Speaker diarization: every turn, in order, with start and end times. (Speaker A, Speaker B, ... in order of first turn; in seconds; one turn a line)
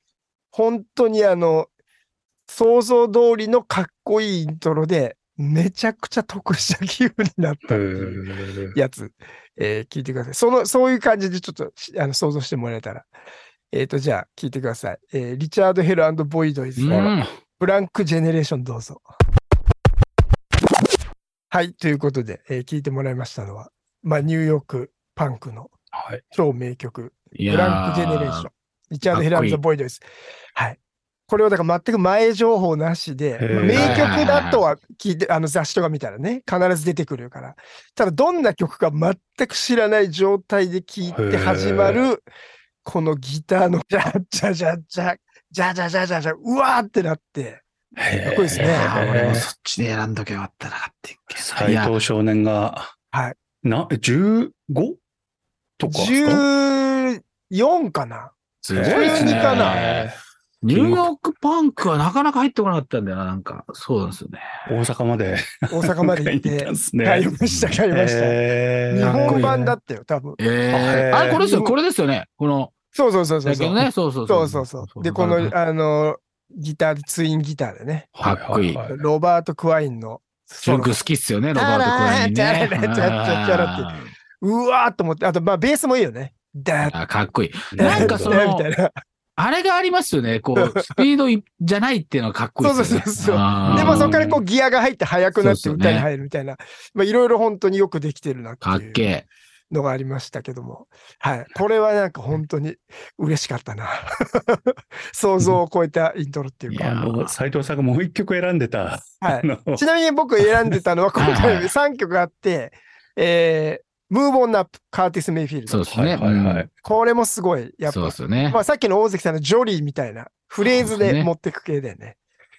Speaker A: 0.5-1.7
Speaker A: 2.5-13.1
Speaker B: 7.7-8.8
Speaker A: 13.7-19.0
Speaker C: 16.8-17.3
Speaker B: 16.9-17.2
Speaker A: 21.5-25.7
Speaker B: 25.9-26.2
Speaker A: 26.3-42.3
Speaker C: 27.3-28.5
Speaker C: 29.1-29.6
Speaker B: 33.4-34.3
Speaker C: 33.7-34.7
Speaker B: 41.1-42.0
Speaker A: 42.8-47.6
Speaker B: 48.0-49.5
Speaker A: 48.2-49.0
Speaker C: 48.5-52.0
Speaker B: 51.4-52.9
Speaker A: 53.1-53.4
Speaker B: 53.6-55.0
Speaker B: 55.8-56.5
Speaker A: 55.9-59.8
Speaker C: 58.6-60.1
Speaker B: 58.8-60.2
Speaker C: 60.6-64.4
Speaker B: 60.7-61.1
Speaker B: 64.7-67.3
Speaker A: 65.7-68.4
Speaker C: 67.4-67.7
Speaker B: 67.9-69.5
Speaker A: 68.9-70.4
Speaker C: 69.0-69.8
Speaker C: 70.4-72.7
Speaker B: 70.7-71.4
Speaker A: 71.3-71.8
Speaker A: 72.9-78.1
Speaker C: 73.4-75.5
Speaker B: 78.2-79.0
Speaker C: 78.2-78.8
Speaker A: 78.8-87.0
Speaker C: 80.6-84.1
Speaker C: 86.8-88.7
Speaker B: 87.7-88.4
Speaker A: 87.8-88.9
Speaker C: 89.4-94.4
Speaker A: 90.5-91.1
Speaker A: 92.6-99.1
Speaker B: 93.6-94.2
Speaker C: 95.3-96.1
Speaker C: 98.6-99.3
Speaker A: 99.7-107.3
Speaker C: 106.7-107.2
Speaker B: 106.8-109.8
Speaker A: 109.2-115.8
Speaker C: 111.2-111.7
Speaker C: 115.7-116.7
Speaker B: 115.9-116.7
Speaker A: 116.8-122.2
Speaker C: 117.9-118.6
Speaker C: 120.6-121.3